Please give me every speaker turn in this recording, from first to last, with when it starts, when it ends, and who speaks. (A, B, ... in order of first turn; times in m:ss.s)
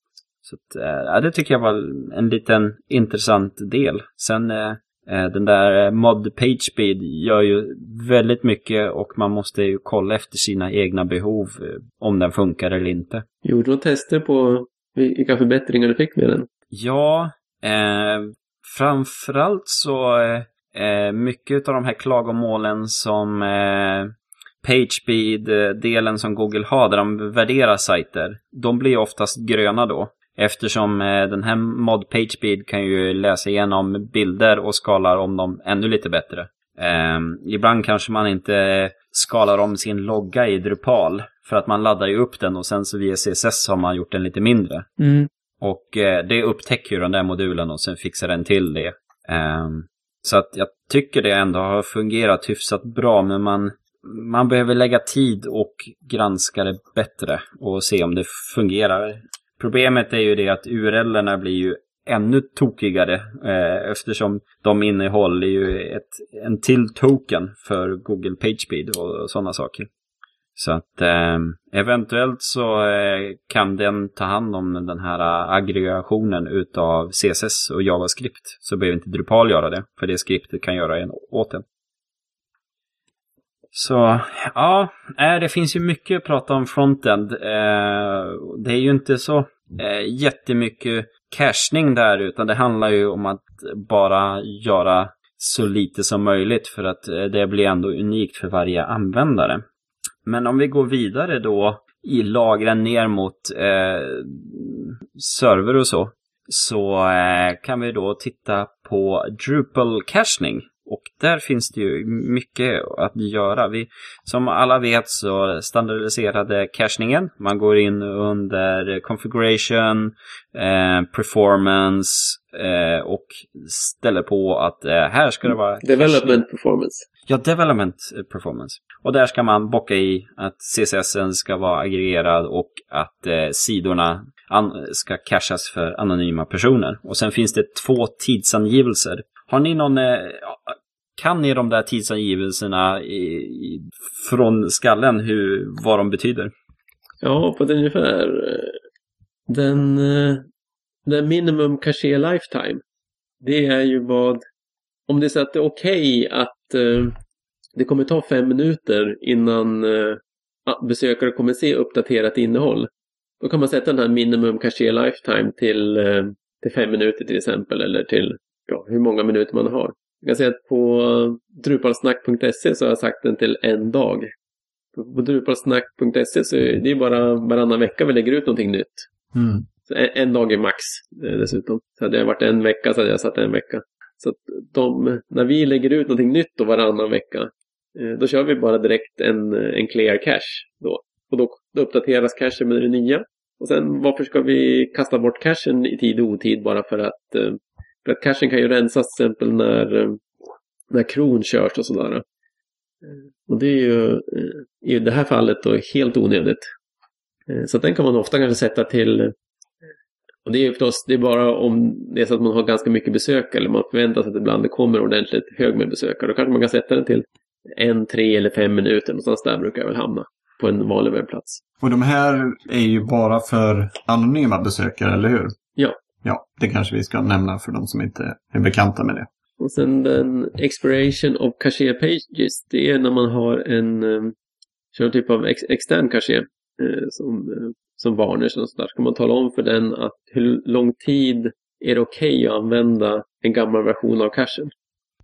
0:00.4-0:13.2 A
0:13.4-0:16.5 B
0:16.7-0:44.9 A
0:45.0-0:45.3 B
0:45.6-1:09.9 A
1:10.6-1:21.6 A
1:23.7-1:39.6 A
1:40.3-2:06.4 A
2:05.8-2:07.0 B
2:07.3-2:26.5 A
2:27.2-2:28.8 B
2:29.5-2:30.4 B
2:31.1-2:32.8 B
2:33.4-2:34.4 B
2:35.1-2:37.2 B
2:37.8-2:42.9 B
2:43.4-2:54.3 B
2:55.0-2:59.1 B
2:59.3-2:59.7 C
2:59.9-3:20.2 B
3:20.9-3:22.2 B
3:23.0-3:26.7 B
3:27.5-3:29.4 B
3:30.4-3:37.2 B
3:37.8-3:41.6 B
3:41.8-3:45.6 C
3:46.2-3:49.3 C
3:49.6-3:54.4 B
3:54.9-4:04.7 B